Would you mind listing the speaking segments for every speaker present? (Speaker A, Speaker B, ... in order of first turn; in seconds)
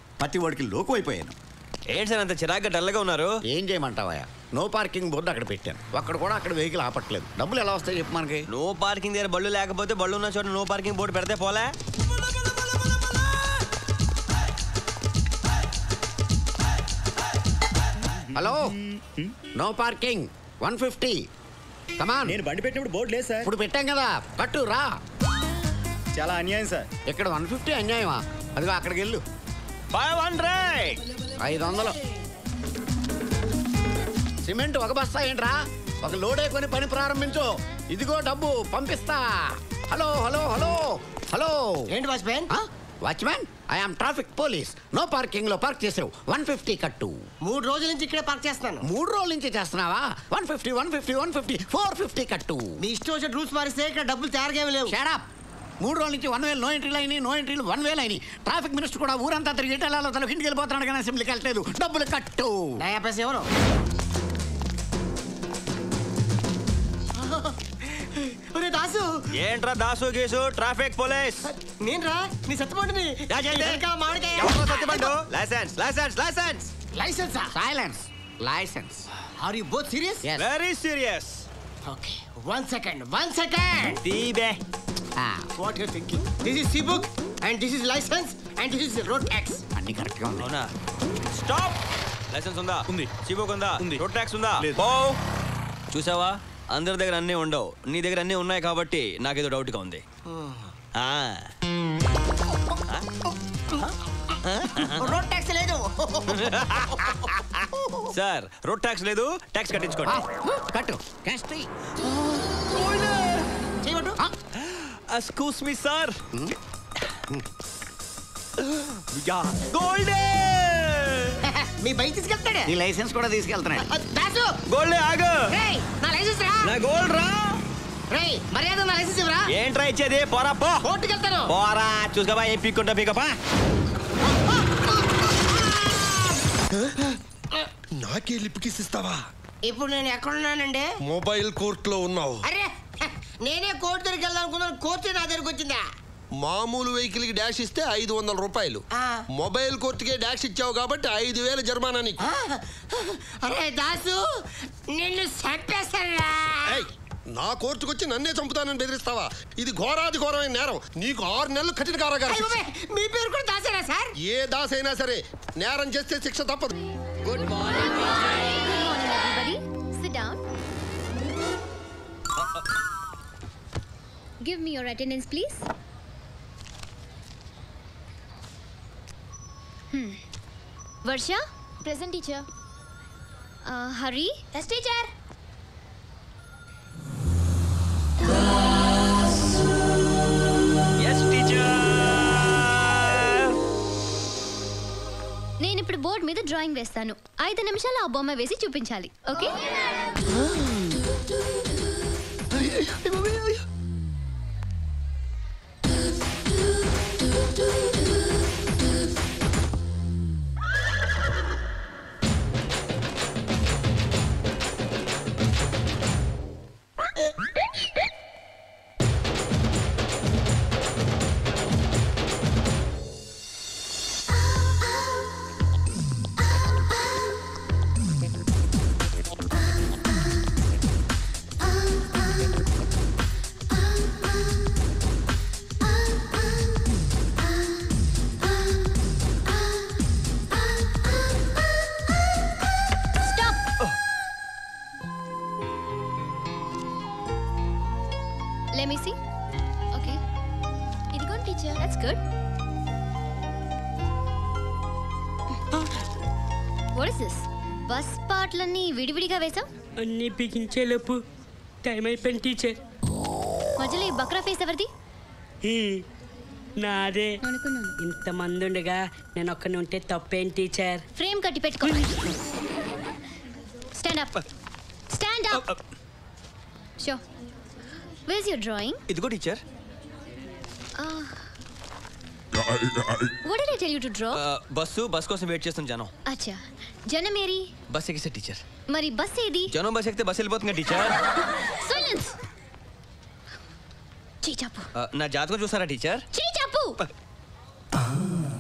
Speaker A: 0.2-1.4, 3.5-8.5, 18.3-18.8, 19.5-21.2, 22.0-22.4, 23.4-25.0, 27.1-29.2, 31.4-32.0, 34.4-41.9, 42.5-47.2, 48.9-52.7, 54.9-55.2, 55.8-62.8, 77.5-79.1, 80.2-80.5, 85.2-85.5, 89.8-90.5, 110.0-111.7, 122.7-123.9
Speaker B: 1.9-3.4, 8.5-11.7, 29.9-31.0, 69.3-71.5, 73.3-76.7, 80.4-81.5, 84.0-84.6, 90.4-90.7, 91.3-95.2, 95.9-100.0, 101.0-101.5, 104.5-105.0, 106.3-107.0, 108.1-110.2, 112.7-113.5, 114.6-116.2, 118.8-121.4, 124.7-125.5, 126.6-127.6, 129.5-130.9, 131.5-133.4, 191.0-193.5, 279.1-279.6, 284.3-286.1, 287.9-288.6, 289.7-291.2, 295.0-296.2
Speaker C: 18.1-19.3, 22.2-23.5, 26.1-26.9, 93.8-94.0
Speaker D: 41.9-42.5, 47.4-48.9, 52.8-55.0, 62.8-63.5, 67.2-69.2, 71.5-75.2, 76.9-77.5, 79.2-80.2, 81.8-84.0, 85.6-89.6, 104.8-107.2, 113.8-114.2, 121.5-122.7, 123.8-124.6, 125.5-126.7, 128.1-129.5, 130.8-131.5, 134.2-136.4, 139.6-140.9, 142.4-145.8, 148.9-149.2, 152.2-154.2, 154.9-156.9, 162.2-164.1
Speaker E: 137.9-139.2, 141.1-142.4, 146.4-148.8, 149.3-152.2, 156.7-162.6, 164.2-166.8
Speaker F: 167.7-170.4, 174.4-175.7, 179.9-180.2, 181.0-182.4, 183.6-185.1, 195.6-199.6, 243.2-243.6, 248.7-249.2, 249.9-250.2, 251.1-252.2, 256.9-259.7, 263.8-264.9, 267.4-268.0, 271.1-272.3, 273.9-274.4, 275.1-275.7, 278.3-279.0, 281.0-281.5, 283.4-284.4, 286.2-287.7, 288.9-289.7, 291.7-292.4, 294.4-294.9, 296.3-297.0
Speaker G: 260.0-261.2, 261.8-262.8, 265.6-266.0, 266.8-267.4, 268.0-271.1